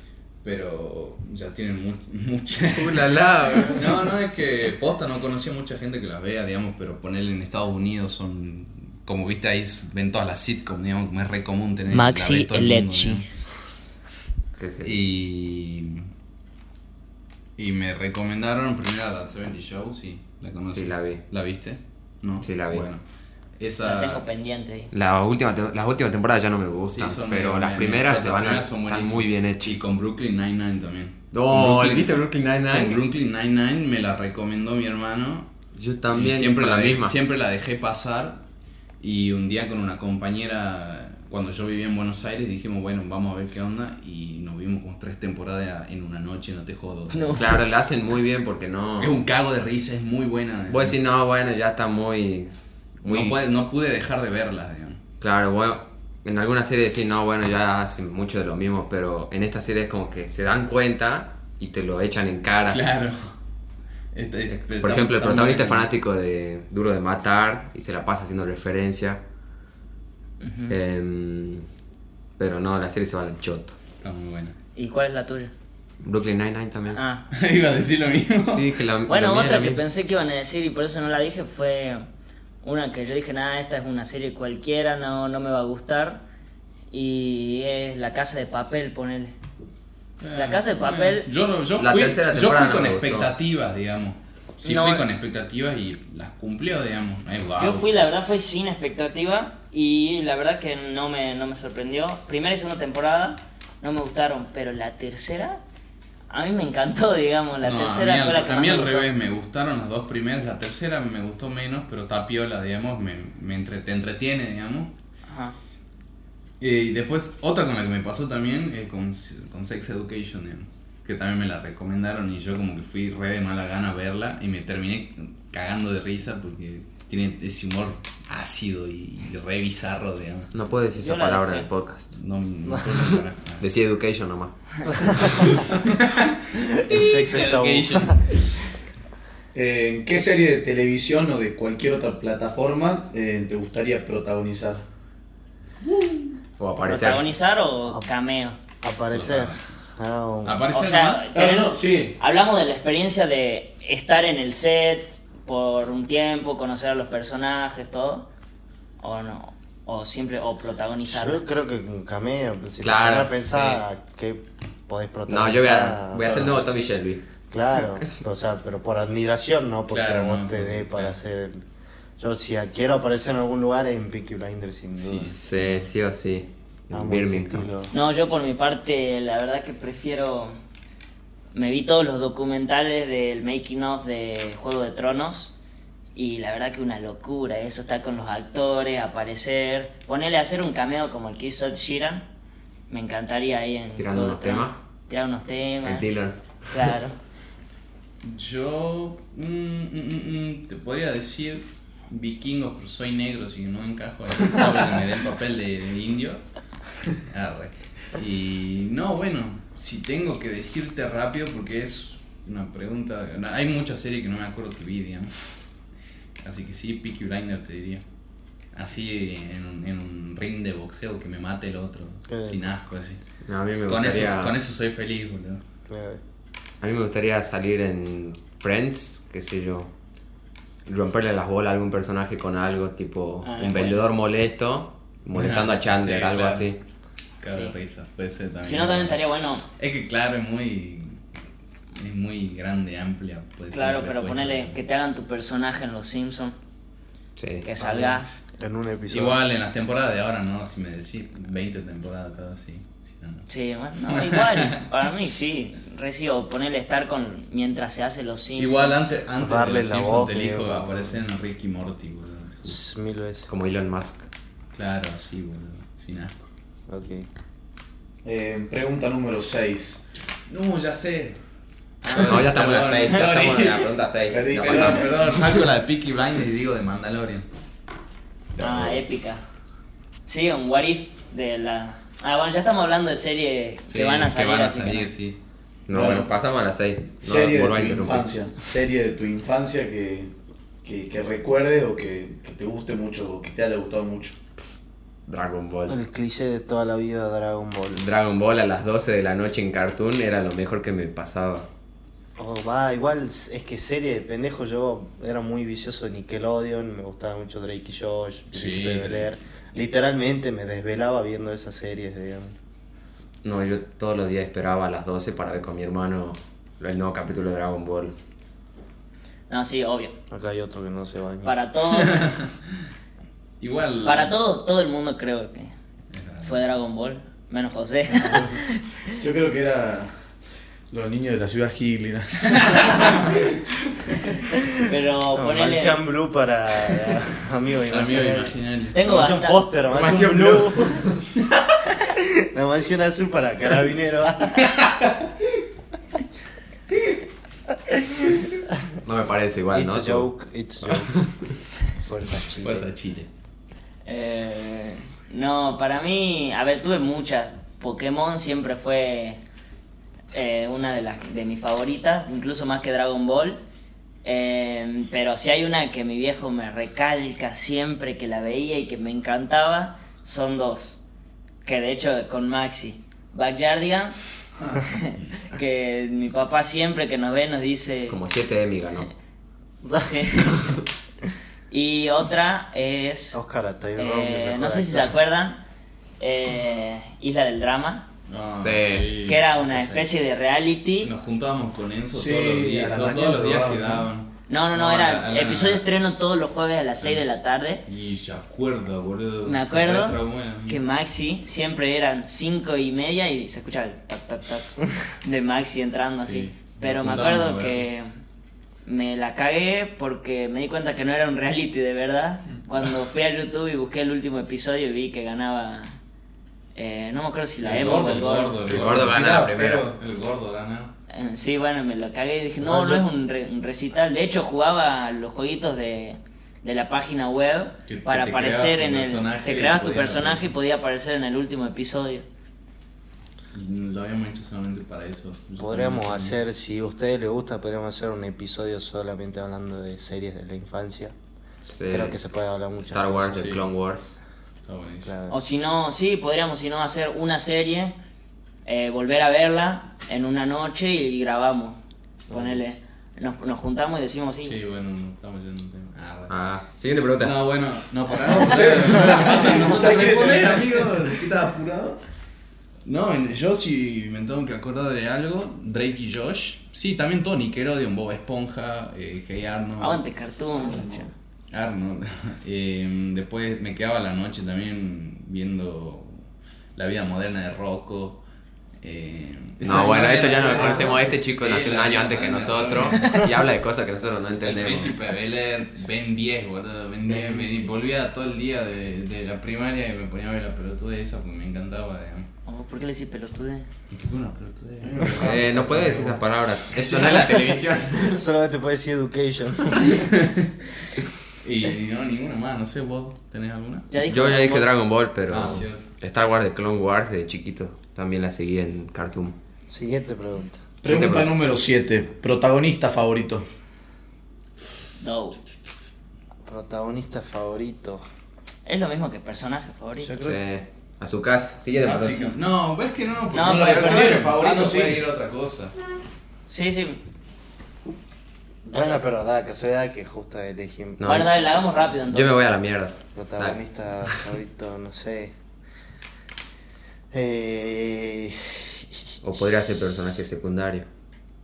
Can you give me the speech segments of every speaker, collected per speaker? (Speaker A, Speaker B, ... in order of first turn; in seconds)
Speaker A: 0.4-13.3, 14.8-16.1, 17.6-23.0, 23.6-24.2, 26.9-35.5, 36.1-38.4, 39.0-47.6, 49.0-51.0, 53.0-55.0, 62.7-63.3, 64.1-65.9, 74.0-74.5, 77.3-78.8, 90.2-97.9, 107.6-114.9, 116.6-130.5, 132.1-133.6, 135.4-138.6, 149.1-149.6, 150.4-151.3, 166.2-166.6, 169.9-171.2, 174.9-175.8, 198.2-206.4, 207.1-215.6, 216.4-218.0, 218.7-223.2, 223.9-225.6, 235.3-236.7, 237.4-239.2, 239.8-241.2, 241.9-244.7, 247.9-248.2, 249.1-253.5, 254.1-254.8, 258.6-262.7, 264.7-266.3, 270.5-271.4, 272.0-274.0, 274.6-277.5, 283.9-285.4, 308.5-309.3, 322.0-322.5, 323.6-324.3, 326.1-326.6, 332.6-333.1, 337.9-339.0, 344.6-345.3, 352.6-353.3, 388.3-389.4, 391.0-395.8, 397.0-397.3, 397.9-400.8, 406.2-407.8, 417.6-420.9, 427.9-430.5, 433.5-436.4, 443.3-443.7, 444.6-445.1, 454.4-456.4, 457.2-462.0, 462.8-470.0, 471.5-476.2, 476.7-478.2, 478.8-483.3, 484.4-492.3, 493.9-496.1, 496.7-498.1, 499.9-500.5, 501.4-503.9, 505.3-505.9, 521.8-525.7
Speaker B: 2.7-4.1, 14.6-15.0, 20.6-21.2, 22.4-22.9, 24.9-29.8, 31.3-33.0, 35.7-37.1, 47.4-49.2, 50.7-52.5, 53.0-53.4, 55.2-62.8, 64.5-69.2, 70.7-71.6, 72.4-73.8, 76.0-77.0, 78.5-79.8, 91.8-93.3, 130.5-132.1, 133.6-135.5, 146.6-147.2, 162.8-163.8, 165.3-167.2, 175.3-177.7, 194.0-194.8, 195.8-196.4, 223.4-224.5, 226.8-229.9, 230.8-236.8, 247.4-247.7, 263.5-264.3, 272.1-275.3, 278.6-279.0, 285.9-288.4, 295.2-296.0, 297.9-301.7, 313.4-318.1, 339.9-341.1, 349.0-350.3, 378.1-379.1, 388.5-389.1, 418.6-419.9, 441.6-442.1, 442.9-444.1, 456.3-457.4, 479.6-484.9, 487.1-487.4, 495.1-498.2, 504.0-509.4, 510.9-511.4, 520.1-522.3, 531.0-531.3, 532.1-534.2, 539.2-540.9
Speaker C: 11.9-13.2, 23.8-24.9, 47.1-47.5, 70.4-70.8, 74.8-75.5, 76.9-77.3, 79.1-82.0, 82.6-86.2, 86.9-89.3, 90.3-91.3, 94.6-95.1, 97.6-105.6, 106.3-109.1, 115.3-115.5, 130.9-131.7, 146.8-148.6, 150.7-158.3, 159.0-161.4, 177.9-180.6, 181.5-185.5, 186.1-192.3, 192.9-196.1, 196.7-197.2, 233.4-234.0, 237.5-237.7, 238.6-239.6, 243.7-246.6, 247.6-248.3, 253.5-258.9, 272.0-272.5, 278.6-279.4, 280.2-285.1, 319.5-320.1, 321.4-322.3, 324.0-325.7, 326.4-328.8, 334.8-336.0, 338.9-339.6, 354.1-359.4, 360.3-363.6, 364.2-371.0, 371.6-378.2, 380.0-380.7, 381.7-383.4, 383.9-385.6, 386.2-388.1, 389.2-391.1, 394.5-397.8, 399.4-408.1, 408.8-416.0, 416.7-418.6, 421.1-432.2, 445.3-447.9, 448.6-454.6, 469.8-471.1, 492.4-493.7, 503.9-504.7, 515.0-515.4, 518.6-520.2, 523.3-524.3, 526.5-527.0, 531.0-532.4
Speaker D: 134.9-135.5, 136.5-138.3, 148.8-150.7, 161.0-166.5, 167.5-171.6, 172.2-175.4, 176.9-177.9, 222.3-222.6, 225.9-226.2, 248.6-249.4, 259.4-261.2, 262.6-263.5, 266.9-267.3, 295.9-298.0, 302.4-312.5, 320.3-321.5, 335.3-341.2, 342.0-344.7, 349.7-351.3, 351.8-352.9, 379.8-380.6, 383.3-385.1, 389.6-390.1, 422.7-423.0, 435.6-441.1, 441.9-443.4, 445.0-445.4, 452.3-452.6, 480.5-480.9, 498.0-500.1, 509.7-510.7, 516.4-518.0, 528.6-531.9, 533.1-535.3, 537.1-539.2
Speaker E: 139.5-144.8, 151.3-152.2, 268.2-270.0, 274.3-275.4, 285.9-286.3, 287.2-290.3, 290.8-294.4, 328.2-328.6, 329.2-330.2, 330.9-333.6, 392.1-394.1, 418.6-419.5, 458.5-460.9, 470.8-471.1, 494.8-496.1, 510.8-513.4, 523.4-525.0